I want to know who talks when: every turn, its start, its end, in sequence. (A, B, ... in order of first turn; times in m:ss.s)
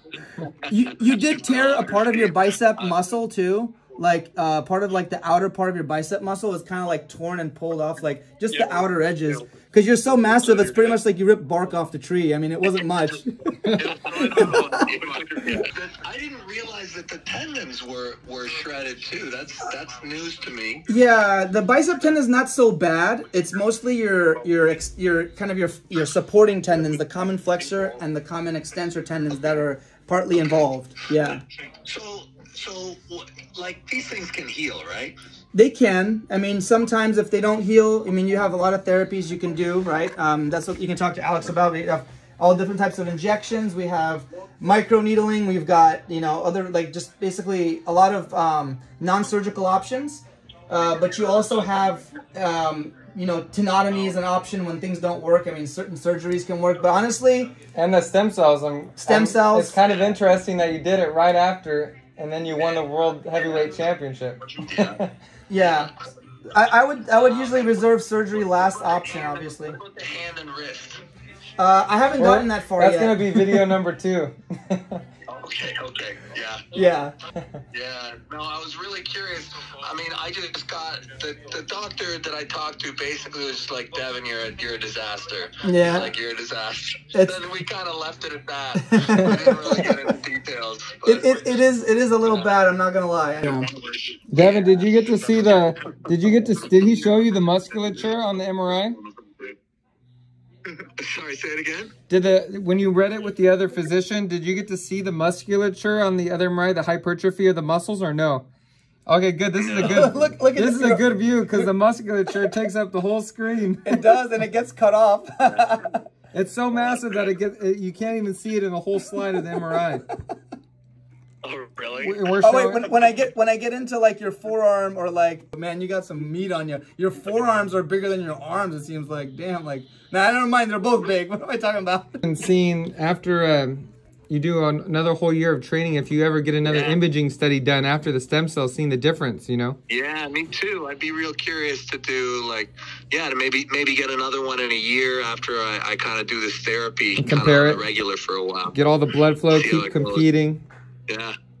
0:00.7-0:15.6 A
0:01.2-0:02.9 B
0:13.8-0:20.8 B
0:20.9-0:31.4 A
0:31.8-0:35.2 B
0:35.5-0:57.6 A
0:57.7-1:05.1 C
0:59.0-0:59.8 A
1:03.5-1:03.7 B
1:04.5-1:05.0 B
1:05.5-1:05.9 A
1:06.5-1:09.8 A
1:07.1-1:07.8 B
1:08.4-1:11.0 B
1:11.6-1:13.7 A
1:12.2-1:15.0 C
1:15.3-1:16.7 B
1:16.7-1:17.1 A
1:17.7-1:31.6 B
1:25.6-1:26.1 A
1:27.1-1:27.4 A
1:28.8-1:30.1 A
1:29.1-1:29.5 C
1:31.0-1:33.7 A
1:32.2-1:32.5 B
1:33.4-1:36.0 B
1:34.3-1:39.0 C
1:39.2-1:39.5 B
1:41.0-1:41.9 B
1:42.1-1:48.5 C
1:49.0-1:54.0 C
1:49.6-1:50.1 B
1:49.8-1:51.7 A
1:53.8-1:56.0 A
1:56.3-2:00.0 C
1:56.8-1:57.1 B
2:01.4-2:02.2 B
2:02.0-2:02.9 C
2:02.4-2:12.2 A
2:12.2-2:19.8 C
2:16.6-2:17.0 B
2:19.9-2:28.8 B
2:27.2-2:27.8 C
2:28.7-2:30.6 C
2:29.5-2:30.2 B
2:31.1-2:31.3 B